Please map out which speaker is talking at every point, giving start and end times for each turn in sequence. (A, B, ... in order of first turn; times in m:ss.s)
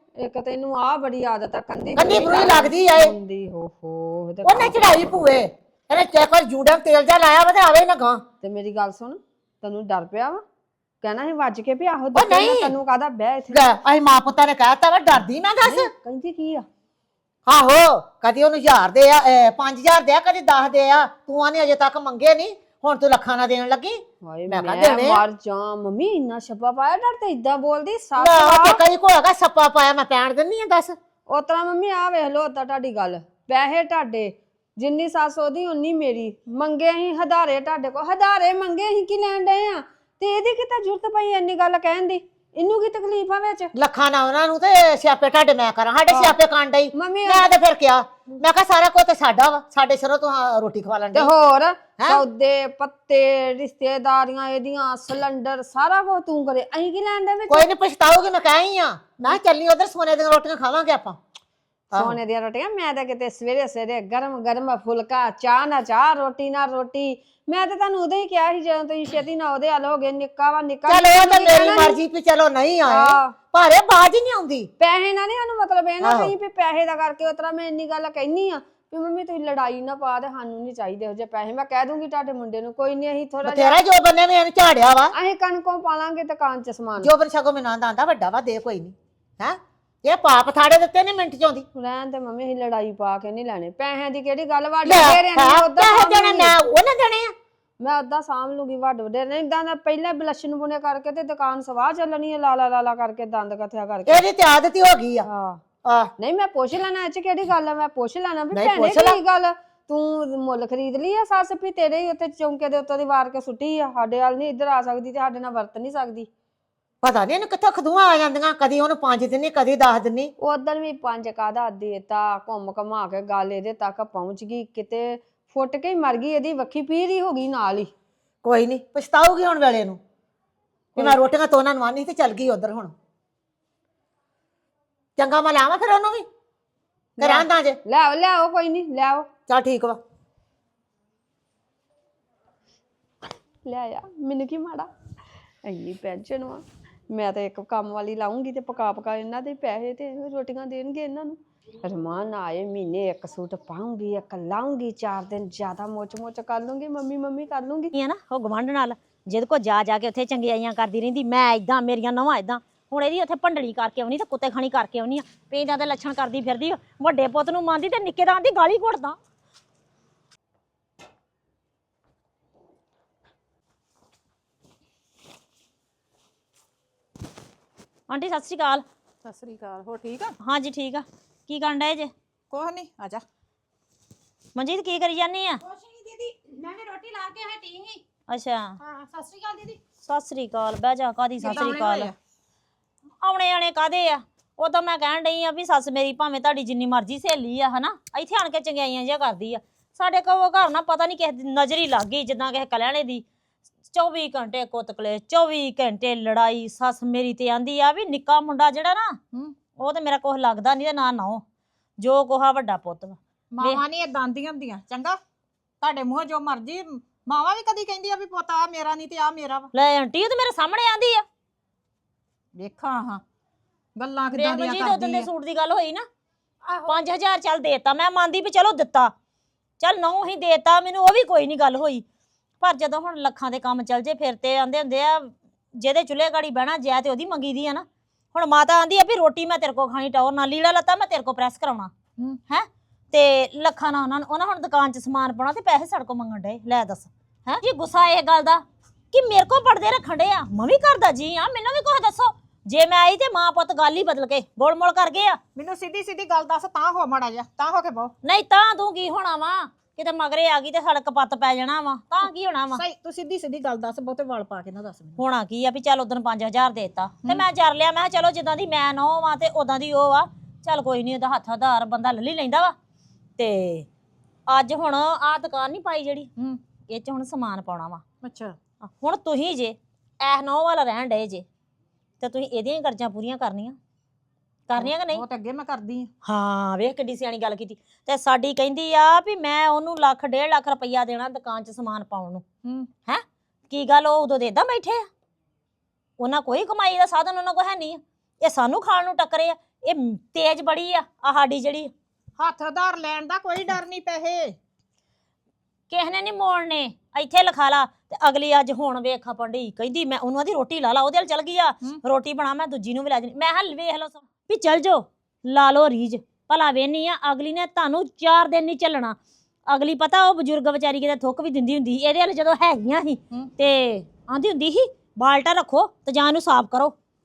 0:00.2-0:04.9 A
0:02.0-0:03.1 B
0:04.4-0:08.2 B
0:08.4-0:10.4 A
0:11.0-0:13.7 A
0:12.1-0:12.8 B
0:13.5-0:15.9 B
0:15.6-0:16.7 A
0:17.5-0:25.2 B
0:24.2-0:28.8 A
0:28.2-0:31.0 B
0:31.3-0:43.7 A
0:43.7-0:51.3 B
0:46.1-0:46.4 A
0:46.9-0:47.5 A
0:51.1-0:57.7 A
0:57.5-1:01.2 B
1:01.9-1:02.2 B
1:01.9-1:12.0 A
1:10.9-1:14.7 B
1:12.9-1:13.4 A
1:14.8-1:23.8 A
1:16.0-1:16.3 B
1:23.4-1:25.1 B
1:25.1-1:27.1 A
1:27.0-1:31.6 B
1:31.8-1:36.6 A
1:34.9-1:37.3 B
1:37.8-1:44.2 A
1:44.1-1:45.3 B
1:45.3-1:45.6 A
1:45.8-1:46.1 B
1:46.2-1:56.3 A
1:48.5-1:49.2 B
1:57.0-2:00.3 B
2:00.4-2:07.9 A
2:08.4-2:10.0 B
2:11.0-2:11.2 A
2:11.0-2:12.9 B
2:15.2-2:16.3 B
2:17.2-2:17.8 B
2:17.2-2:19.3 A
2:19.5-2:20.0 B
2:23.6-2:24.9 A
2:25.6-2:37.9 A
2:38.0-2:49.2 C
2:58.1-2:58.8 C
2:59.2-3:00.3 D
3:00.4-3:02.1 C
3:02.5-3:03.2 D
3:04.6-3:05.6 C
3:05.6-3:08.0 E
3:08.3-3:08.8 C
3:08.8-3:09.8 E
3:10.0-3:12.1 C
3:11.4-3:12.1 D
3:13.2-3:23.2 C
3:23.9-3:29.2 C
3:29.8-3:31.4 C
3:32.0-3:33.8 C
3:33.6-3:35.2 D
3:35.8-3:39.7 D
3:39.7-3:41.2 C
3:42.6-3:43.2 D
3:44.0-3:45.3 D
3:44.3-3:46.1 C
3:46.6-3:47.0 E
3:46.9-3:49.1 C
3:49.8-3:52.0 C
3:52.6-4:01.9 C
4:02.5-4:15.4 C
4:15.6-4:18.1 D
4:18.2-4:22.8 C
4:22.2-4:25.2 D
4:25.2-4:32.8 C
4:33.4-4:33.9 C
4:34.5-4:36.3 C
4:36.9-4:38.0 C
4:38.2-4:38.6 D
4:38.8-4:41.4 C
4:42.2-4:43.8 C
4:44.7-4:45.2 C
4:44.8-4:46.1 D
4:46.2-4:52.4 C
4:53.0-4:55.1 C
4:56.2-5:01.9 C
5:02.4-5:04.6 D
5:05.9-5:19.2 C
5:19.7-5:26.9 C